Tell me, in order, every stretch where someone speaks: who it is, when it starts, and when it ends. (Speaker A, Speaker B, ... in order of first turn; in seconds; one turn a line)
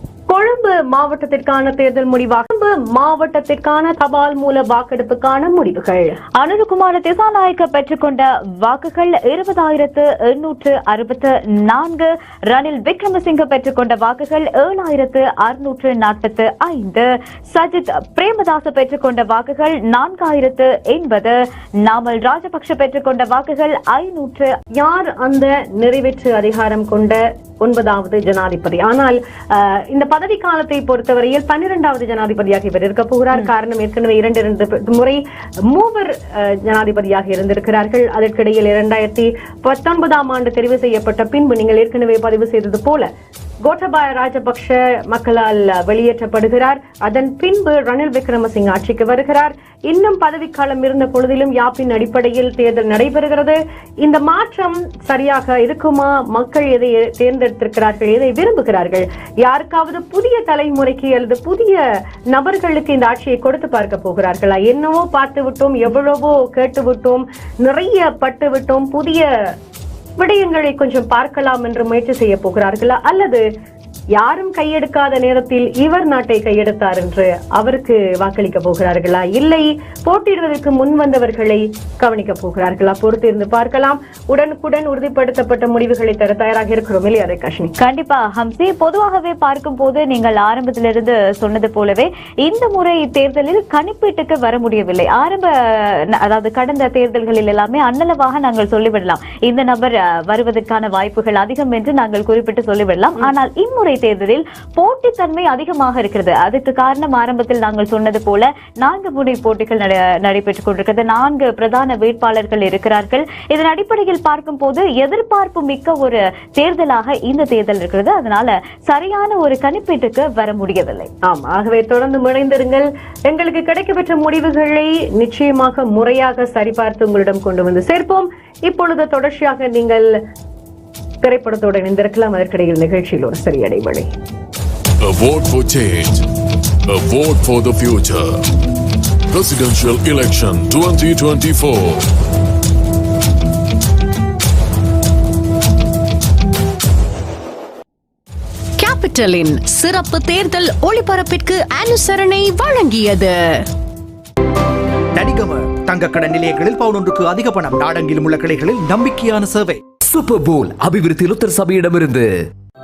Speaker A: 0.3-6.2
Speaker B: 6.4-24.6
Speaker A: 24.8-43.1
Speaker A: 43.6-69.3
Speaker A: 70.2-73.4
Speaker A: 74.2-87.8
Speaker B: 87.8-121.1
Speaker A: 121.2-130.1
Speaker A: 131.2-134.1
Speaker C: 135.0-136.2
Speaker C: 136.9-138.4
Speaker C: 139.3-142.1
Speaker D: 148.8-153.7
Speaker E: 155.2-159.8
Speaker F: 160.1-162.3